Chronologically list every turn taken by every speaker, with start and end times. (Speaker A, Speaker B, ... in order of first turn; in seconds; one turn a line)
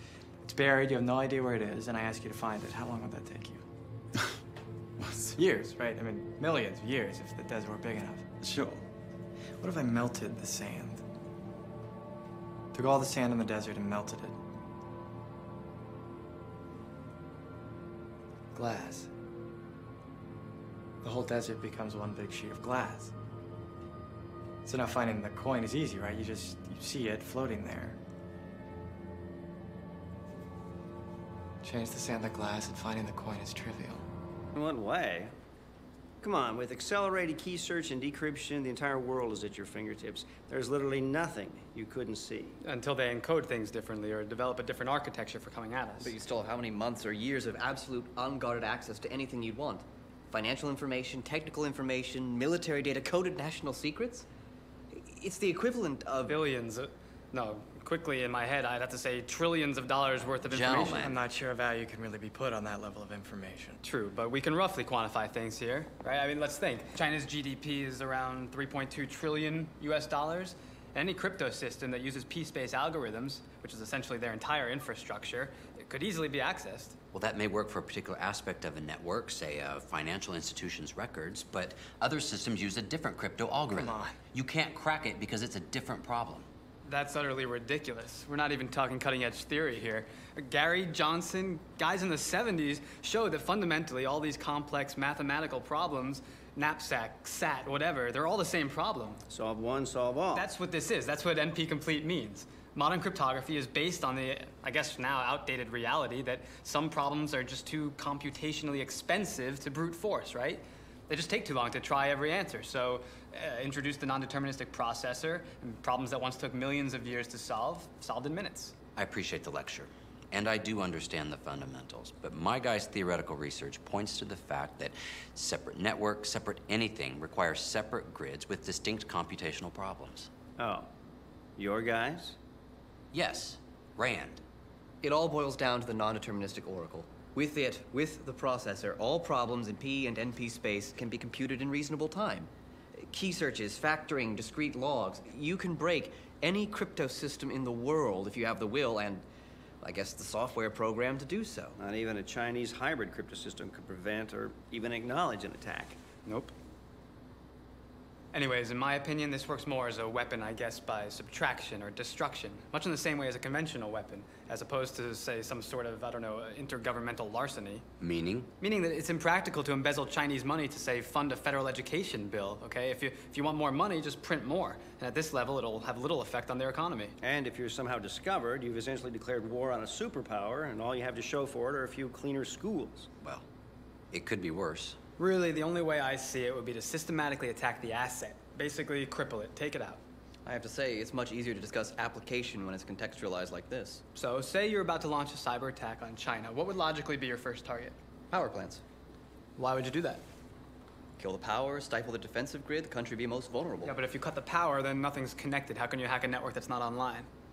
Speaker A: 0.4-3.6
Speaker A: 5.0-8.8
Speaker A: 9.6-11.0
Speaker A: 12.7-14.3
Speaker A: 18.5-19.1
Speaker A: 21.0-23.1
Speaker A: 24.6-28.0
Speaker A: 31.6-34.0
Speaker B: 34.5-35.3
Speaker B: 36.2-42.6
Speaker C: 42.6-46.1
Speaker D: 46.0-54.2
Speaker D: 54.9-56.3
Speaker C: 56.2-61.0
Speaker E: 60.4-61.2
Speaker A: 60.9-63.8
Speaker C: 63.8-76.9
Speaker E: 77.1-86.5
Speaker A: 83.7-84.2
Speaker C: 86.8-99.2
Speaker B: 99.3-100.5
Speaker C: 100.3-118.7
Speaker E: 119.0-130.3
Speaker B: 130.6-130.9
Speaker B: 131.6-132.4
Speaker E: 133.1-134.4
Speaker D: 135.0-142.5
Speaker D: 143.1-149.2
Speaker D: 149.8-151.7
Speaker B: 151.8-156.0
Speaker C: 156.2-156.5
Speaker C: 158.3-167.8
Speaker E: 168.0-168.5
Speaker C: 168.6-177.1
Speaker B: 177.2-183.1
Speaker E: 184.1-185.0
Speaker C: 185.2-190.0
Speaker D: 190.4-194.0
Speaker C: 194.1-197.9
Speaker D: 198.3-198.8
Speaker C: 199.6-200.2
Speaker D: 201.2-203.9
Speaker C: 203.8-207.3